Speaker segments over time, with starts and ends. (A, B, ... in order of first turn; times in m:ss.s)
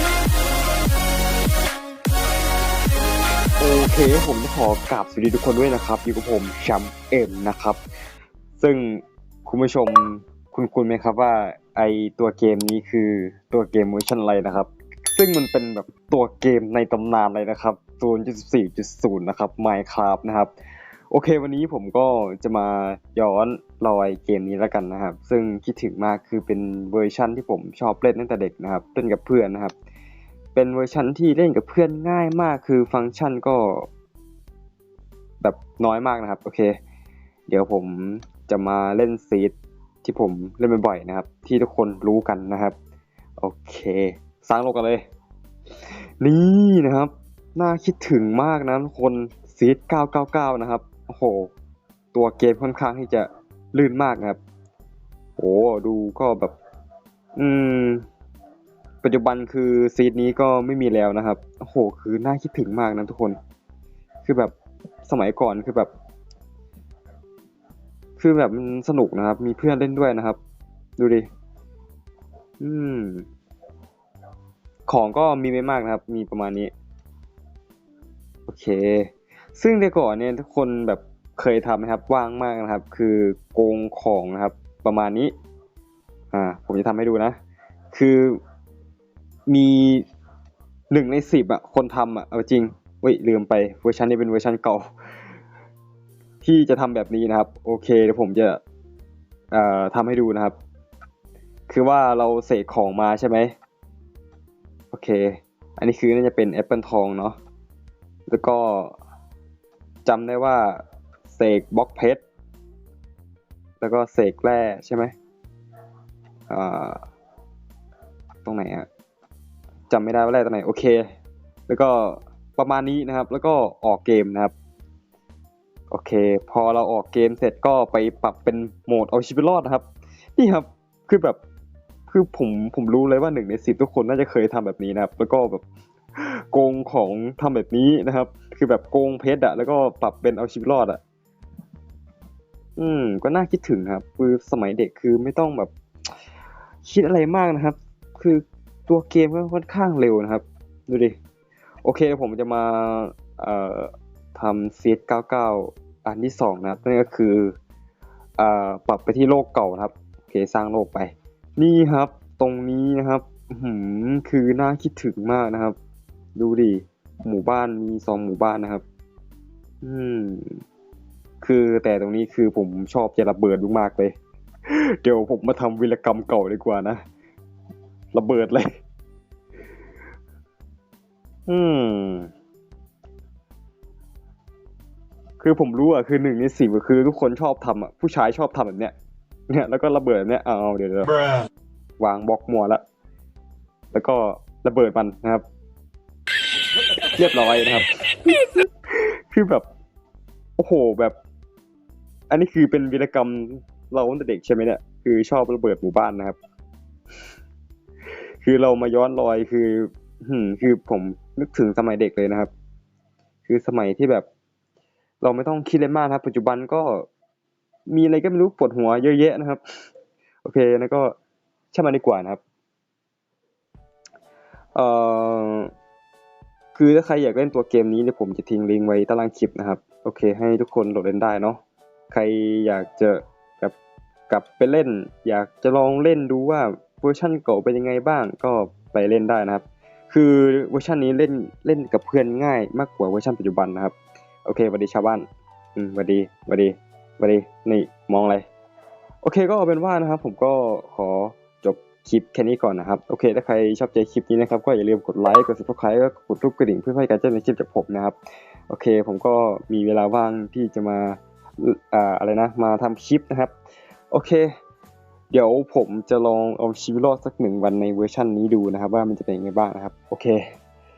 0:03.6-0:07.8 A
0:08.6-0:20.5 A
0:21.1-0:29.7 A
0:30.6-0:33.9 A
0:35.4-0:36.8 A
0:37.5-0:42.7 A
0:43.4-0:45.0 A
0:46.2-0:51.5 A
0:52.1-0:54.4 A
0:55.4-0:56.6 A
0:57.4-0:58.0 A
0:59.0-1:03.4 A
1:04.2-1:04.5 A
1:05.0-1:05.9 A
1:08.2-1:10.4 A
1:11.0-1:11.3 A
1:12.6-1:13.3 A
1:14.9-1:16.7 A
1:18.5-1:25.3 A
1:26.3-1:27.4 A
1:27.9-1:28.4 A
1:29.5-1:30.0 A
1:30.9-1:34.9 A
1:36.4-1:38.6 A
1:39.5-1:40.6 A
1:41.7-1:43.5 A
1:44.9-1:47.4 A
1:48.3-1:48.9 A
1:50.0-1:52.2 A
1:53.8-1:55.1 A
1:56.5-1:57.0 A
1:58.4-1:58.9 A
1:59.9-2:01.0 A
2:01.7-2:04.5 A
2:05.9-2:11.4 A
2:12.1-2:15.6 A
2:16.2-2:21.0 A
2:22.8-2:25.7 A
2:26.8-2:31.2 A
2:31.8-2:37.6 A
2:38.4-2:45.8 A
2:46.4-2:48.8 A
2:49.8-2:50.6 A
2:51.4-2:54.2 A
2:54.7-2:57.0 A
2:58.1-2:58.8 A
3:01.5-3:02.3 A
3:05.4-3:09.0 A
3:09.5-3:11.2 A
3:12.0-3:12.8 A
3:13.9-3:15.4 A
3:17.2-3:19.7 A
3:20.6-3:21.2 A
3:22.3-3:26.4 A
3:28.4-3:32.5 A
3:33.4-3:34.3 A
3:35.2-3:37.1 A
3:37.9-3:39.6 A
3:40.4-3:41.2 A
3:41.7-3:42.4 A
3:44.8-3:45.7 A
3:46.7-3:53.8 A
3:54.3-4:08.5 A
4:09.2-4:18.2 A
4:18.7-4:23.5 A
4:24.1-4:24.6 A
4:25.3-4:30.5 A